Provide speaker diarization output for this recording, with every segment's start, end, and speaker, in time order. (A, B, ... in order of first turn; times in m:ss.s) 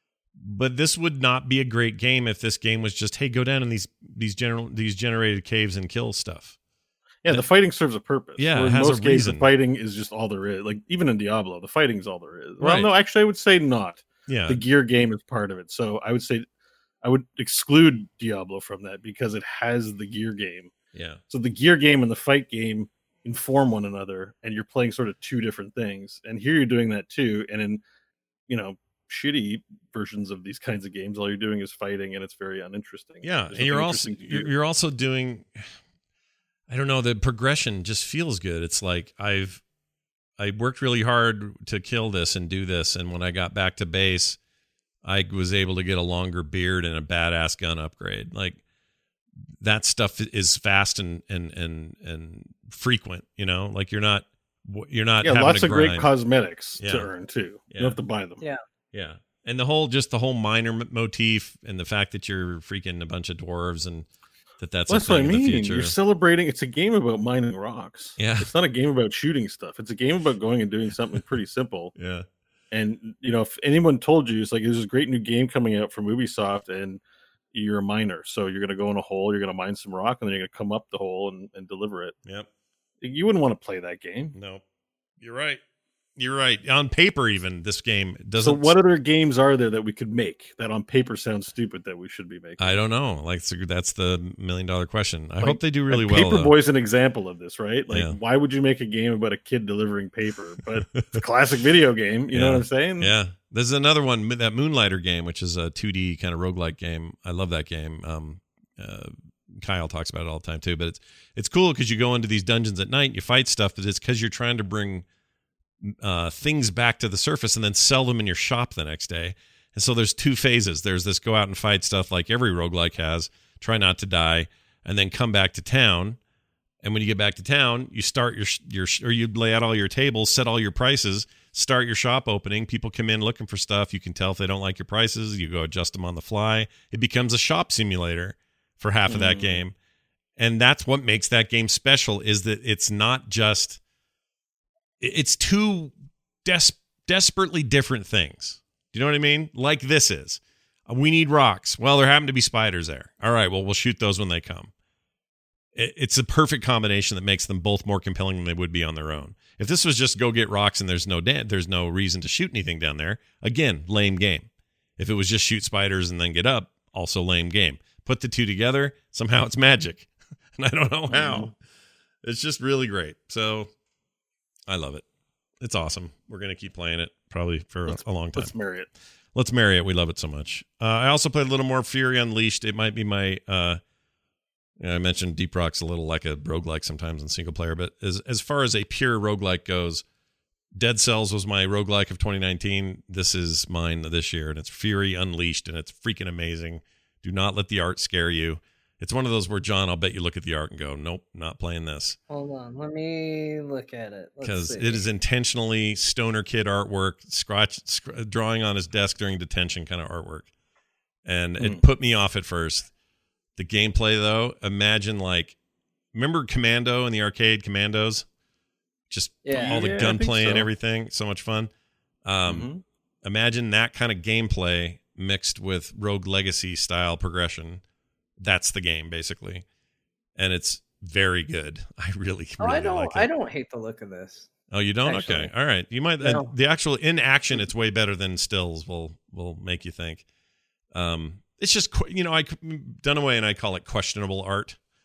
0:00.4-0:06.6 A
0:07.2-0:16.4 B
0:08.4-0:09.4 A
0:12.6-0:12.9 A
0:14.3-0:14.6 A
0:17.0-0:20.7 B
0:20.9-0:21.2 A
0:21.3-0:27.8 B
0:28.5-0:34.5 B
0:33.2-0:35.7 A
0:36.7-0:39.6 A
0:40.4-0:44.4 A
0:45.0-0:48.6 A
0:49.6-0:56.1 A
0:55.2-0:58.4 B
0:56.8-0:57.1 A
0:57.7-0:58.0 A
0:58.9-1:04.1 A
1:04.6-1:06.0 A
1:04.9-1:11.9 B
1:08.2-1:08.5 A
1:12.0-1:12.2 A
1:12.7-1:17.0 B
1:17.5-1:22.1 B
1:23.0-1:24.3 B
1:24.3-1:24.6 A
1:25.2-1:25.6 A
1:26.2-1:28.8 A
1:28.4-1:32.8 B
1:32.6-1:36.5 A
1:35.4-1:43.1 B
1:37.9-1:38.2 A
1:41.0-1:41.2 A
1:42.3-1:55.0 A
1:55.8-2:06.2 A
2:06.8-2:19.7 A
2:19.1-2:19.6 B
2:20.4-2:23.8 A
2:25.0-2:25.9 A
2:26.4-2:34.7 A
2:35.7-2:51.6 A
2:51.1-2:51.5 B
2:52.2-2:53.7 A
2:54.7-2:55.0 A
2:55.6-2:58.5 A
2:57.9-2:58.9 B
2:59.3-3:03.8 A
3:04.8-3:10.0 A
3:10.7-3:22.2 A
3:22.3-3:25.0 C
3:24.4-3:30.5 A
3:31.2-3:32.9 A
3:33.6-3:35.6 A
3:36.1-3:38.3 A
3:39.1-3:41.7 A
3:39.4-3:39.8 C
3:39.5-3:40.7 B
3:42.2-3:42.7 A
3:42.5-3:42.8 B
3:43.2-3:47.8 A
3:48.4-3:49.6 A
3:50.4-3:53.3 A
3:52.6-3:54.5 C
3:54.7-4:00.2 A
3:55.0-3:55.5 C
3:56.2-3:56.5 C
4:00.9-4:04.8 A